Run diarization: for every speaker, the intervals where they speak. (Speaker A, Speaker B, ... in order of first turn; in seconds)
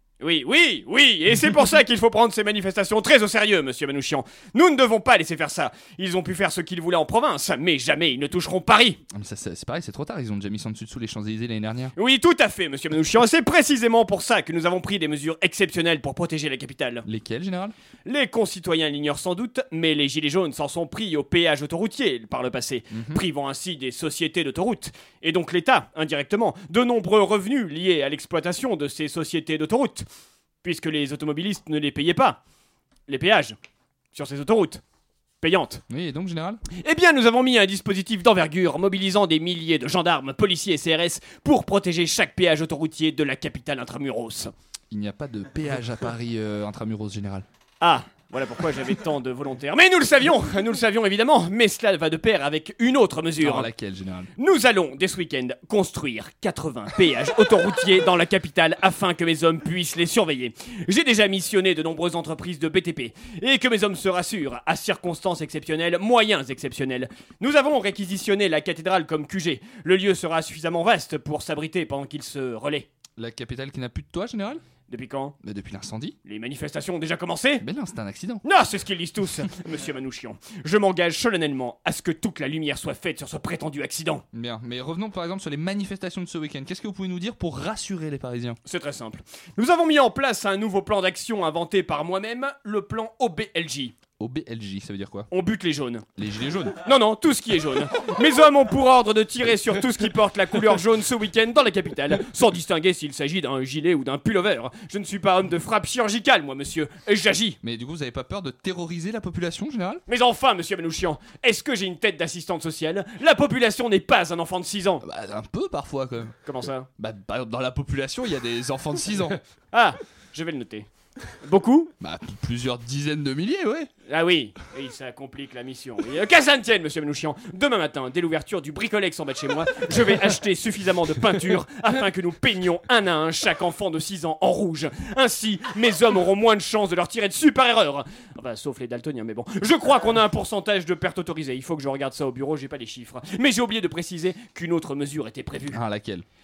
Speaker A: 0.2-9.0, 11.9-17.1, 18.1-30.1, 30.6-32.4, 33.1-33.6, 34.1-34.8, 35.4-35.8, 36.8-44.5, 47.8-53.7, 54.4-72.9, 74.9-75.4, 76.2-77.6, 78.4-84.2, 88.7-94.0, 95.3-96.1, 96.8-107.6, 110.1-115.0, 116.5-116.9, 119.7-120.9, 121.4-121.9, 124.1-145.8
Speaker B: 9.1-11.9, 17.1-17.7, 22.9-23.2, 35.9-36.6, 44.9-47.5, 53.4-54.3, 73.2-74.6, 75.4-76.2, 77.6-78.4, 84.3-88.6, 94.2-95.3, 96.2-96.8, 107.6-110.0, 115.0-116.4, 117.0-119.4, 122.0-123.9, 145.7-146.2